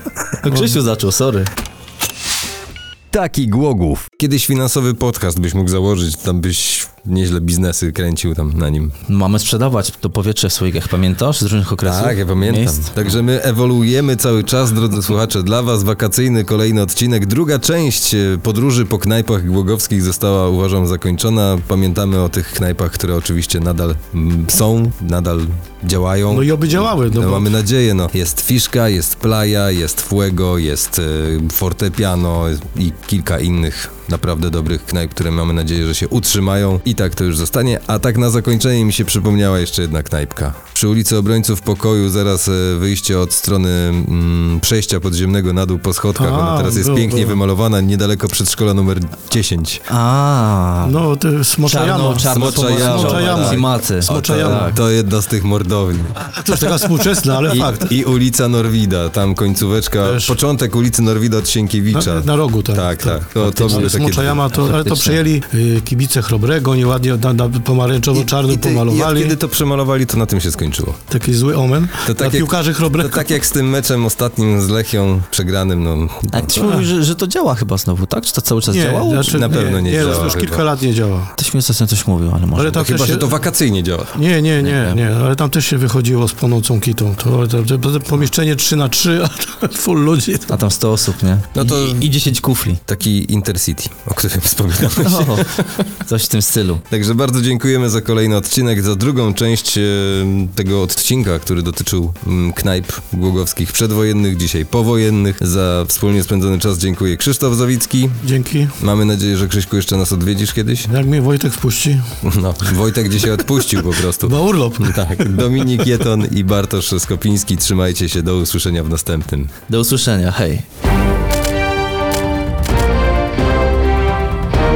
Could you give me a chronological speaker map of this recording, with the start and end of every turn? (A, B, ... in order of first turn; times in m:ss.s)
0:00.4-0:01.5 A
0:03.1-0:08.9 B
0:09.1-0:13.0 A
0:11.8-0:49.8 B
0:26.3-0:27.5 C
0:46.2-0:47.4 C
0:49.9-0:51.0 A
0:50.8-0:54.7 C
0:51.6-0:54.8 A
0:52.3-0:56.8 B
0:56.2-0:57.9 C
0:57.5-1:04.4 B
1:00.0-1:00.3 C
1:01.9-1:09.4 C
1:03.4-1:05.2 A
1:08.1-1:11.0 B
1:11.1-1:13.4 C
1:12.0-1:16.6 B
1:16.3-1:20.3 A
1:16.5-1:16.9 C
1:18.7-1:21.3 C
1:19.3-1:20.6 B
1:21.4-1:23.0 A
1:22.6-1:23.3 C
1:22.7-1:24.2 B
1:24.1-1:30.6 C
1:24.6-1:25.0 A
1:30.5-1:32.8 A
1:31.5-1:32.1 B
1:32.8-1:35.9 B
1:35.0-1:36.8 A
1:36.9-1:48.2 B
1:48.2-1:48.7 C
1:48.8-1:50.9 B
1:50.9-1:52.0 C
1:52.2-1:59.5 B
1:54.2-1:55.5 C
1:59.7-2:00.6 A